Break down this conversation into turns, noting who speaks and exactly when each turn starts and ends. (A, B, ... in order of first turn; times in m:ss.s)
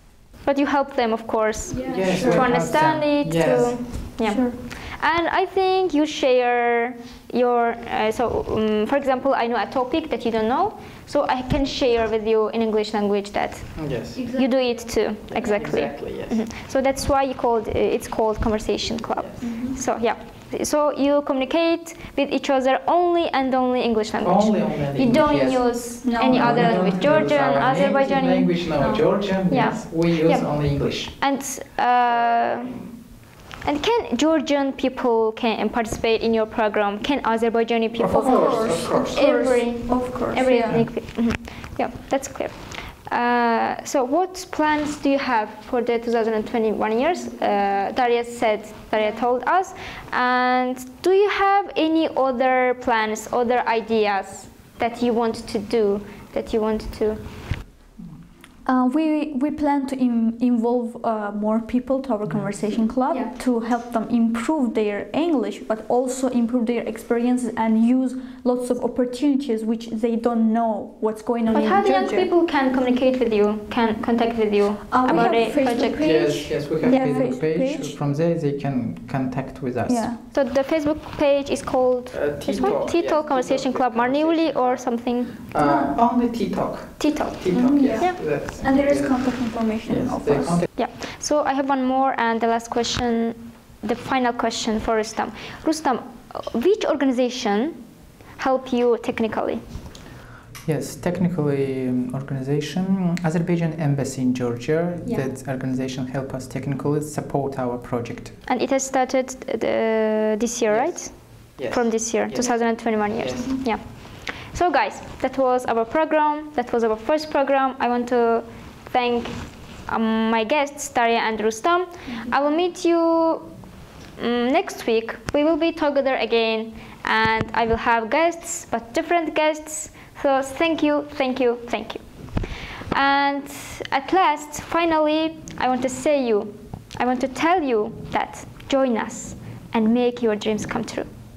0:00.4-0:32.9 A
0:01.8-0:04.0 B
0:02.1-0:02.4 C
0:04.3-0:04.6 C
0:13.8-0:14.3 B
0:15.3-0:16.4 B
0:19.4-0:19.8 C
0:24.2-0:31.1 B
0:26.0-0:27.0 C
0:33.6-0:57.2 A
0:38.0-0:39.2 B
0:38.2-0:40.8 C
0:58.6-1:12.3 C
1:11.5-1:17.3 A
1:14.9-1:17.9 C
1:15.8-1:20.1 B
1:19.9-1:20.2 C
1:20.3-1:25.4 A
1:22.1-1:30.7 B
1:25.6-1:25.9 C
1:27.0-1:28.2 A
1:27.5-1:30.6 C
1:30.7-1:37.8 A
1:38.4-1:39.6 A
1:40.6-1:48.4 B
1:48.4-2:03.5 A
1:50.7-1:53.6 B
2:04.2-2:12.0 A
2:12.9-2:21.1 A